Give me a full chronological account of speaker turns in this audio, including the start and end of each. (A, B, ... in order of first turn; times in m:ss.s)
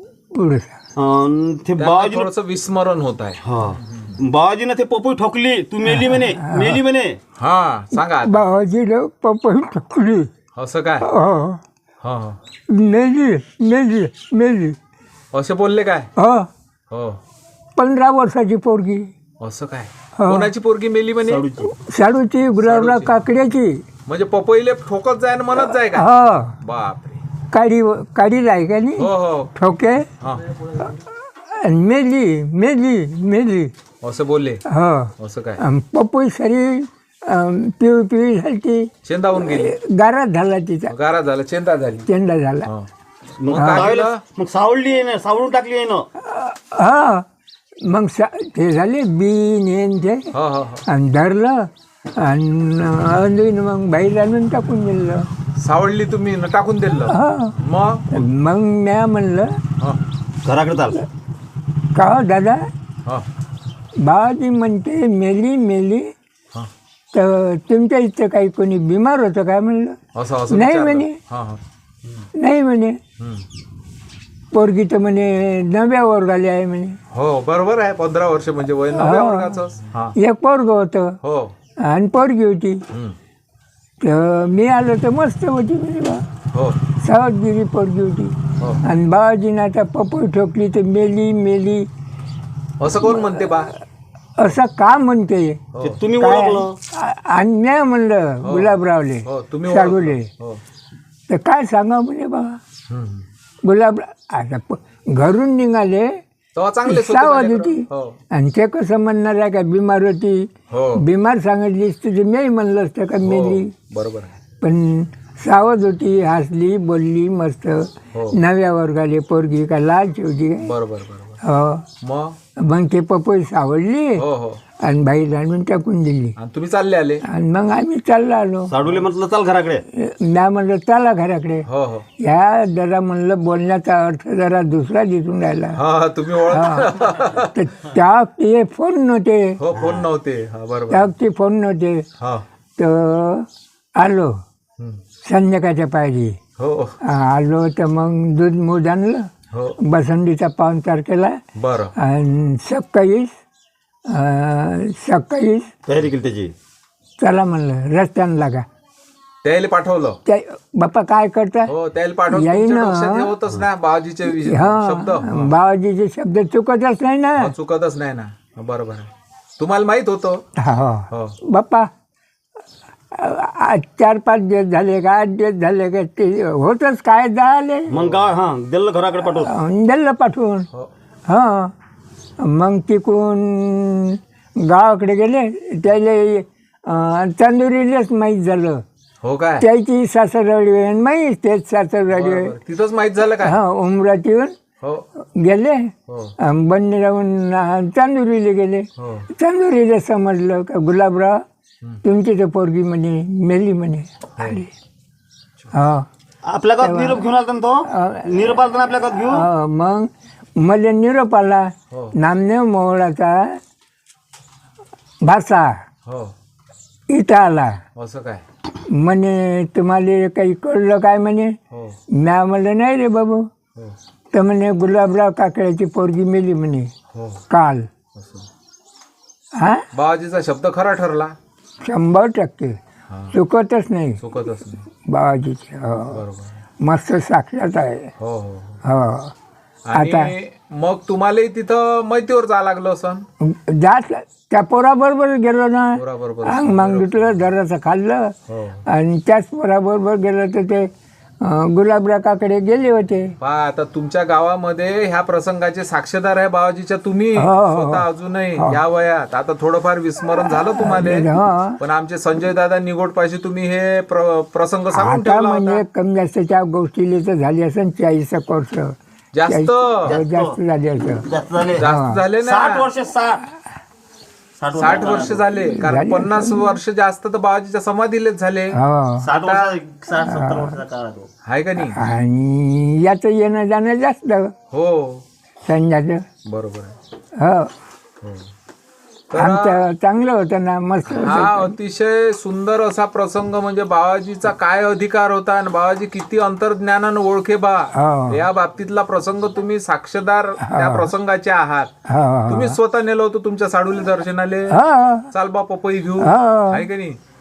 0:00.3-0:00.8 A
0:01.0-0:02.3 B
0:01.8-0:03.4 C
0:03.4-0:07.2 B
0:06.1-0:06.8 A
0:07.4-0:08.4 C
0:08.0-0:10.3 A
0:10.5-0:11.1 C
0:11.0-0:11.6 A
0:12.0-0:12.4 C
0:12.7-0:14.8 A
0:15.3-0:16.1 C
0:16.2-0:16.5 A
0:16.9-0:17.2 C
0:17.8-0:19.1 A
0:19.4-0:21.4 C
0:20.2-0:20.5 A
0:21.2-0:21.7 B
0:21.7-0:23.8 A
0:22.6-0:23.1 C
0:24.0-0:26.1 C
0:25.9-0:26.6 A
0:26.6-0:27.2 C
0:27.5-0:30.1 A
0:29.0-0:29.5 C
0:30.2-0:30.5 C
0:31.5-0:33.7 A
0:34.0-0:34.6 C
0:34.7-0:40.9 A
0:35.2-0:35.6 C
0:39.0-0:39.7 C
0:40.9-0:42.0 C
0:42.0-0:42.7 A
0:43.4-0:46.0 B
0:43.5-0:44.2 C
0:43.5-0:44.0 A
0:46.2-0:47.2 A
0:47.9-0:50.3 A
0:50.3-0:50.8 C
0:50.8-0:55.3 A
0:55.6-0:58.2 C
0:57.1-0:57.6 A
0:58.1-0:59.5 A
1:00.4-1:01.0 B
1:01.9-1:02.6 A
1:04.0-1:06.1 A
1:07.1-1:10.0 A
1:10.1-1:11.6 C
1:10.5-1:11.2 A
1:12.4-1:13.0 A
1:13.2-1:13.4 C
1:14.5-1:17.0 A
1:17.1-1:20.1 C
1:18.9-1:19.6 A
1:20.2-1:21.2 A
1:21.2-1:21.5 C
1:21.8-1:22.8 A
1:22.9-1:23.2 C
1:24.0-1:26.2 A
1:26.5-1:26.8 C
1:27.0-1:31.9 A
1:32.8-1:33.7 C
1:34.4-1:35.6 A
1:35.7-1:36.0 C
1:35.8-1:36.8 B
1:36.2-1:40.3 A
1:38.4-1:40.6 C
1:41.3-1:42.6 A
1:42.9-1:43.2 C
1:43.6-1:46.2 A
1:46.6-1:48.2 C
1:46.8-1:53.7 A
1:50.7-1:51.0 C
1:53.2-1:54.4 C
1:54.6-2:00.7 A
1:58.1-1:58.4 C
2:00.6-2:01.4 C
2:01.4-2:01.9 A
2:02.0-2:02.4 C
2:02.6-2:04.2 A
2:04.2-2:04.6 C
2:04.8-2:06.4 A
2:06.4-2:07.2 C
2:07.2-2:08.8 A
2:08.7-2:09.8 B
2:09.9-2:11.6 A
2:11.6-2:12.0 C
2:12.2-2:15.8 A
2:15.8-2:17.6 C
2:16.5-2:19.6 A
2:19.6-2:21.1 C
2:20.9-2:22.0 A
2:22.2-2:22.4 C
2:22.8-2:24.4 A
2:25.2-2:26.4 A
2:26.6-2:27.0 C
2:27.0-2:29.3 A
2:29.8-2:31.4 A
2:31.6-2:31.9 C
2:32.0-2:33.3 A
2:34.1-2:35.7 A
2:35.9-2:36.5 B
2:37.2-2:38.6 A
2:39.4-2:40.2 C
2:40.3-2:41.7 A
2:41.7-2:45.5 C
2:42.3-2:43.3 A
2:44.2-2:47.5 A
2:47.4-2:50.4 C
2:50.6-2:51.9 A
2:51.1-2:51.3 C
2:53.1-2:57.9 A
2:57.9-2:58.3 C
2:57.9-2:59.5 B
2:59.3-3:00.7 A
3:01.3-3:01.7 A
3:02.4-3:08.8 A
3:09.2-3:09.6 C
3:09.6-3:12.5 A
3:12.1-3:13.6 C
3:13.4-3:14.5 A
3:15.2-3:21.4 A
3:16.1-3:16.3 C
3:19.0-3:19.2 C
3:22.0-3:24.7 A
3:25.7-3:26.0 A
3:26.4-3:29.4 B
3:26.8-3:27.2 A
3:27.9-3:33.6 A
3:35.2-3:35.8 A
3:36.0-3:36.3 C
3:37.1-3:37.8 A
3:38.0-3:38.4 C
3:38.9-3:41.6 A
3:41.7-3:42.0 C
3:42.1-3:43.5 A
3:44.3-3:46.9 A
3:47.1-3:47.4 C
3:47.5-3:47.9 A
3:48.2-3:48.5 C
3:49.6-3:49.8 A
3:49.9-3:51.3 C
3:51.8-3:52.8 A
3:53.1-3:53.3 C
3:53.3-3:54.2 A
3:54.2-3:54.9 C
3:55.0-3:56.2 A
3:56.1-3:56.5 C
3:56.8-3:58.1 A
3:58.2-3:58.8 C
3:58.8-3:59.3 A
3:59.8-4:03.2 C
3:59.9-4:00.3 A
4:03.4-4:13.3 A
4:05.9-4:07.4 C
4:08.5-4:08.8 C
4:13.4-4:25.8 C
4:17.4-4:18.8 A
4:20.4-4:21.8 A
4:24.9-4:32.2 A
4:29.3-4:30.2 C
4:30.0-4:30.6 B
4:31.2-4:31.9 B
4:31.8-4:32.9 C
4:32.4-4:33.4 B
4:34.6-4:35.4 B
4:34.8-4:38.8 C
4:35.6-4:36.8 A
4:38.7-4:39.3 A
4:39.2-4:41.3 B
4:39.4-4:39.7 C
4:40.2-4:40.8 A
4:41.4-4:42.0 C
4:41.8-4:44.5 A
4:44.7-4:45.2 C
4:45.6-4:46.3 A
4:46.4-4:47.0 C
4:47.4-4:47.7 A
4:48.2-4:48.5 C
4:49.3-4:49.8 C
4:49.3-4:51.8 A
4:51.1-5:01.9 C
4:57.9-4:58.4 A
5:00.6-5:01.1 A
5:02.1-5:02.8 A
5:02.5-5:04.8 C
5:04.7-5:05.3 A
5:05.3-5:07.2 C
5:06.2-5:06.9 A